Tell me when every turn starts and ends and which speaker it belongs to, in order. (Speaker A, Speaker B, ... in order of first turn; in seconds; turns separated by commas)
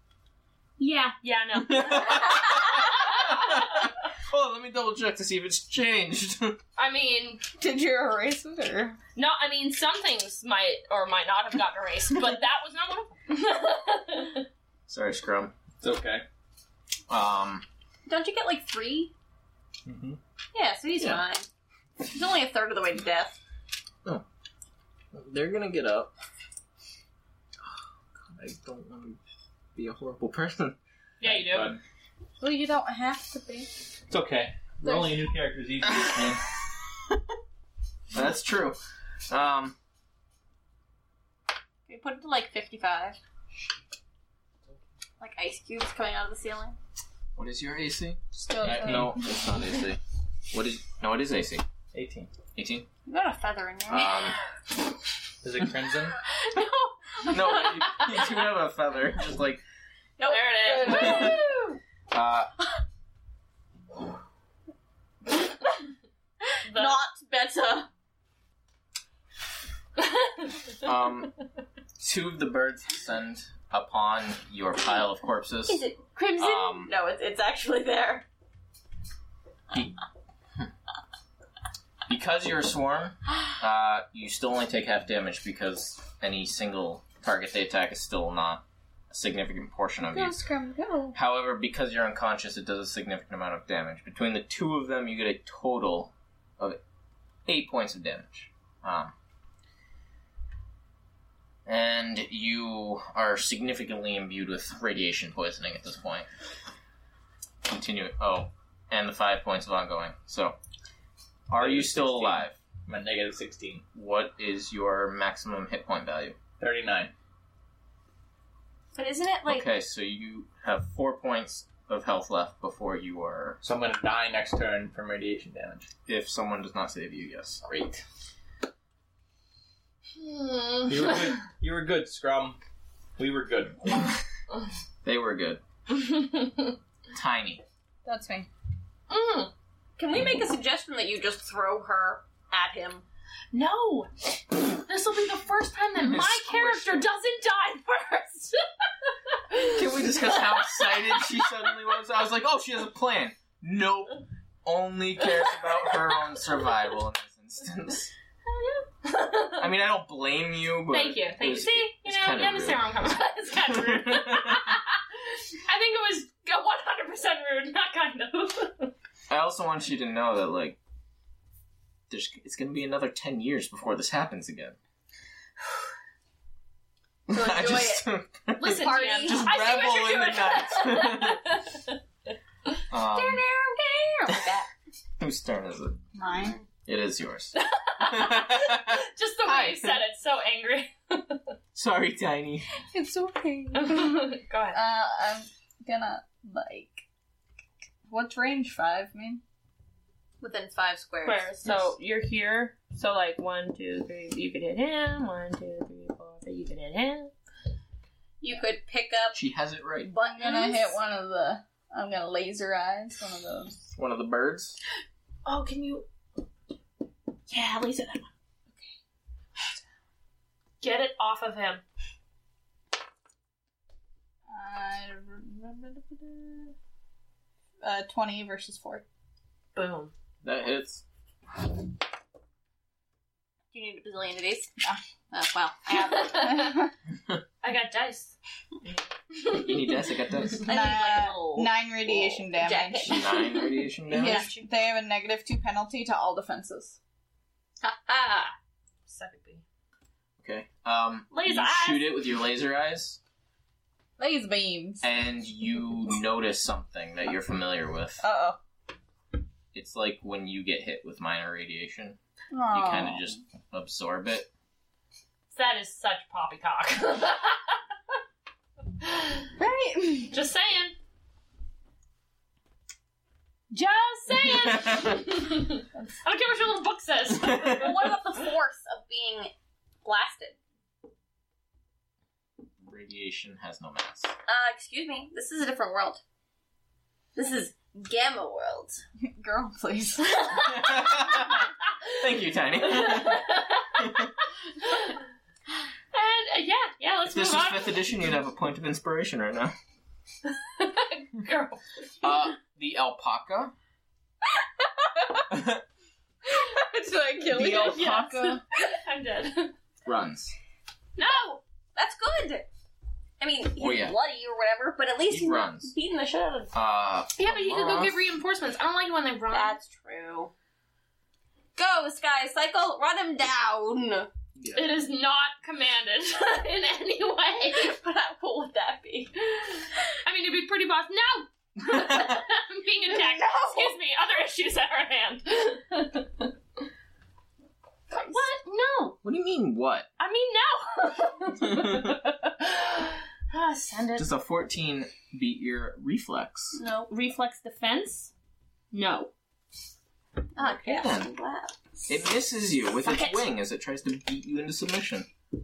Speaker A: 0.8-1.1, Speaker B: 1.2-3.9, Speaker C: 1.6-6.6, Speaker B: 6.8-7.4, Speaker D: 7.6-9.0, Speaker B: 9.2-14.5, Speaker C: 14.9-15.5, Speaker E: 15.8-16.2, Speaker C: 17.1-17.6, Speaker A: 18.1-19.1, Speaker E: 19.9-20.2, Speaker A: 20.5-21.5, Speaker C: 21.0-21.2, Speaker A: 22.0-23.4, Speaker C: 25.1-26.1, Speaker C: 27.6-29.2, Speaker C: 29.8-30.8, Speaker B: 31.2-31.7, Speaker E: 31.2-31.8, Speaker D: 32.4-33.7, Speaker E: 34.1-36.5, Speaker D: 34.9-35.2, Speaker C: 38.1-38.8, Speaker C: 39.3-39.8, Speaker A: 41.9-43.2, Speaker A: 45.2-46.8, Speaker C: 47.4-51.7, Speaker D: 48.3-49.2, Speaker E: 51.9-52.3, Speaker C: 52.5-52.9, Speaker A: 53.1-54.2, Speaker C: 53.9-54.4, Speaker E: 55.4-56.2, Speaker B: 56.3-58.4, Speaker C: 57.3-59.6, Speaker A: 60.2-61.4, Speaker B: 60.2-61.8, Speaker C: 60.8-61.4, Speaker C: 62.1-62.5, Speaker B: 66.7-67.0, Speaker A: 66.7-67.9, Speaker C: 70.8-71.3, Speaker C: 72.0-75.8, Speaker A: 75.7-78.3, Speaker C: 76.4-76.9, Speaker C: 82.1-90.4, Speaker D: 90.1-91.2, Speaker C: 91.1-96.8, Speaker C: 97.5-99.1, Speaker C: 101.7-106.3, Speaker C: 107.7-110.6, Speaker C: 111.5-112.6, Speaker E: 111.5-113.8, Speaker C: 114.0-116.4, Speaker E: 116.6-117.1, Speaker A: 119.0-119.7, Speaker C: 119.5-123.6, Speaker E: 123.6-125.9, Speaker C: 126.1-127.6, Speaker E: 127.6-128.0, Speaker B: 130.2-131.3, Speaker E: 130.9-132.6, Speaker E: 133.2-134.2, Speaker C: 135.0-135.6, Speaker B: 135.9-136.8, Speaker C: 137.1-137.6, Speaker D: 138.1-138.5, Speaker B: 139.1-139.5, Speaker A: 140.0-143.0, Speaker B: 143.5-151.4, Speaker C: 146.0-147.1, Speaker C: 149.6-158.1, Speaker B: 158.5-159.7, Speaker C: 159.6-162.9, Speaker B: 160.9-168.9, Speaker C: 163.7-164.7, Speaker C: 169.3-170.8, Speaker C: 172.1-174.8, Speaker C: 177.3-181.4, Speaker A: 177.3-178.1, Speaker B: 178.6-181.9, Speaker A: 178.6-179.7, Speaker C: 182.9-183.5, Speaker A: 183.0-184.7, Speaker C: 185.2-186.0, Speaker D: 186.1-186.6, Speaker A: 186.3-186.7, Speaker C: 186.9-190.0, Speaker B: 187.6-191.4, Speaker C: 191.7-192.7, Speaker D: 192.7-197.1, Speaker B: 193.7-194.8, Speaker D: 198.1-199.4, Speaker A: 200.4-201.5, Speaker B: 201.2-207.3, Speaker C: 201.7-201.9, Speaker A: 208.4-209.4, Speaker C: 209.3-210.1, Speaker A: 210.1-210.9, Speaker D: 210.2-213.9, Speaker C: 213.9-214.8, Speaker B: 215.4-216.1, Speaker B: 217.5-218.3, Speaker B: 220.8-221.8, Speaker D: 224.5-226.8, Speaker D: 227.8-229.0, Speaker B: 229.8-230.1, Speaker C: 230.4-231.0, Speaker A: 233.7-234.7, Speaker A: 235.3-236.7, Speaker B: 235.9-236.8, Speaker D: 236.3-236.9, Speaker B: 237.6-241.6, Speaker C: 239.5-240.7, Speaker D: 240.7-243.3, Speaker A: 240.8-243.7, Speaker C: 243.0-244.5, Speaker D: 244.1-247.0, Speaker B: 244.1-244.7, Speaker A: 247.8-248.5, Speaker B: 249.1-249.6, Speaker C: 250.4-253.2, Speaker B: 251.3-252.2, Speaker D: 254.2-255.1, Speaker C: 255.0-258.2, Speaker D: 258.2-258.6, Speaker C: 259.7-262.2, Speaker D: 262.5-263.4, Speaker C: 262.7-264.5, Speaker B: 265.5-267.8, Speaker B: 269.0-269.5, Speaker D: 269.6-270.4, Speaker B: 270.3-271.0, Speaker B: 273.7-278.0, Speaker C: 274.6-275.2, Speaker A: 277.5-279.5, Speaker A: 280.0-280.6, Speaker C: 282.8-284.3, Speaker A: 284.5-286.2, Speaker A: 287.4-289.0, Speaker D: 289.2-291.2, Speaker C: 290.6-294.3, Speaker B: 292.8-294.3, Speaker B: 294.8-295.2, Speaker B: 296.1-298.2, Speaker C: 297.3-299.7, Speaker B: 300.5-302.0, Speaker C: 302.2-303.7, Speaker C: 305.5-305.8, Speaker D: 306.5-308.5, Speaker C: 307.5-308.6, Speaker B: 307.6-309.7, Speaker C: 310.1-310.5, Speaker B: 311.2-311.6, Speaker A: 312.0-312.7, Speaker A: 313.4-316.7, Speaker C: 313.8-314.2, Speaker C: 315.3-315.9, Speaker C: 316.7-318.2, Speaker B: 317.4-319.8, Speaker A: 319.5-320.5, Speaker A: 321.8-324.3, Speaker C: 324.6-324.9, Speaker B: 324.7-327.9, Speaker A: 327.7-329.7, Speaker B: 330.2-336.5, Speaker A: 333.1-334.0, Speaker A: 338.1-338.4, Speaker B: 338.1-339.2, Speaker C: 339.2-340.1, Speaker B: 340.2-344.3, Speaker C: 341.6-342.2, Speaker C: 344.2-346.8, Speaker A: 346.8-347.1, Speaker B: 347.1-348.3, Speaker B: 348.9-349.3, Speaker A: 350.6-351.8, Speaker C: 350.6-351.3, Speaker C: 352.1-355.3, Speaker B: 353.0-353.4